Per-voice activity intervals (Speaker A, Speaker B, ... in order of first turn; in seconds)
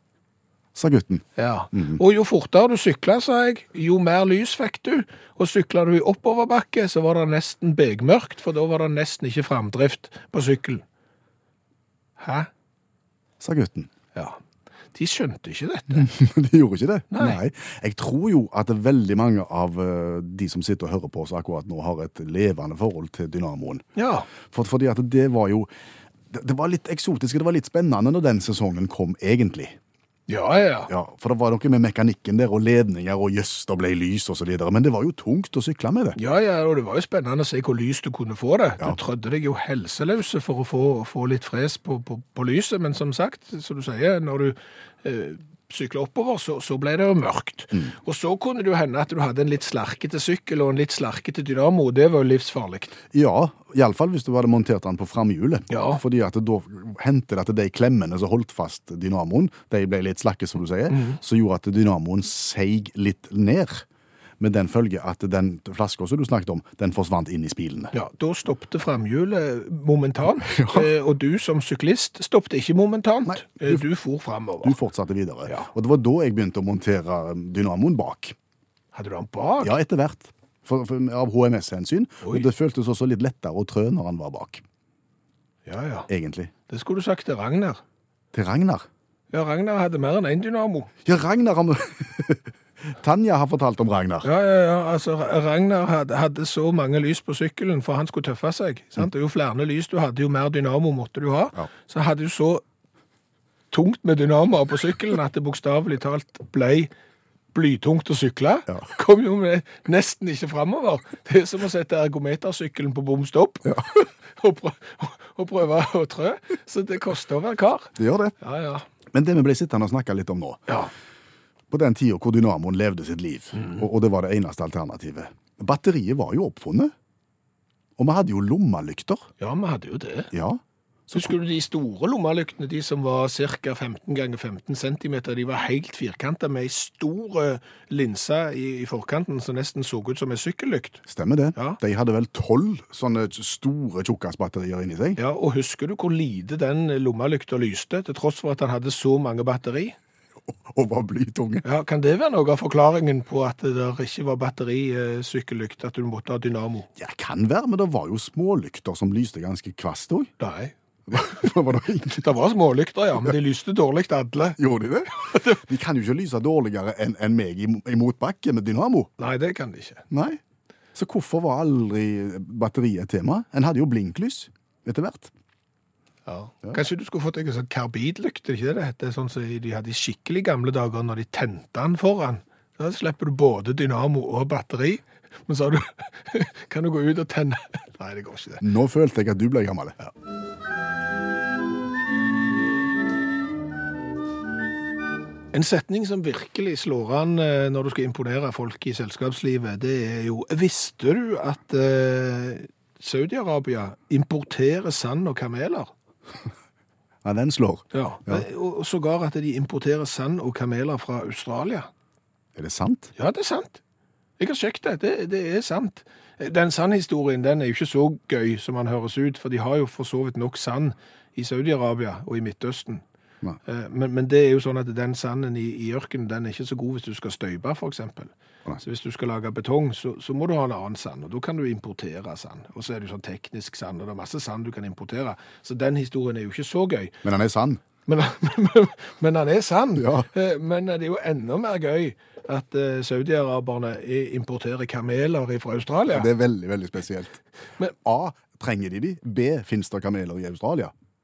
Speaker A: 0.7-2.0, 13.4-13.9, 15.9-23.8, 24.5-25.7, 26.3-29.8, 30.9-36.2, 53.1-63.8, 64.4-67.9, 70.4-70.9, 73.3-73.8, 74.6-78.3, 79.6-84.6, 86.1-86.5, 88.3-88.9, 91.0-94.3, 118.0-118.3, 119.1-120.7, 121.7-126.9, 128.0-129.3, 130.3-131.3, 141.1-145.2, 150.6-151.6, 157.0-160.3, 161.1-162.3, 164.6-169.1, 170.1-170.4, 170.9-175.3, 188.6-189.9, 207.2-208.4, 212.6-213.1, 237.2-237.8, 240.0-240.3, 246.1-247.4, 248.0-250.9
Speaker B: 1.4-10.8, 12.2-12.5, 14.9-16.1, 17.1-17.4, 23.9-24.3, 30.3-30.9, 36.2-53.0, 55.7-56.0, 60.9-61.2, 67.9-74.8, 78.9-79.7, 85.7-86.1, 86.7-87.8, 89.3-90.9, 94.2-102.6, 103.7-106.9, 107.5-118.8, 129.4-130.3, 131.1-141.0, 145.2-149.9, 151.6-156.9, 160.4-161.5, 162.2-164.6, 165.2-165.6, 169.2-170.0, 176.2-188.6, 195.5-205.9, 207.9-211.9, 213.2-213.8, 214.4-223.0, 223.6-237.1, 238.1-246.3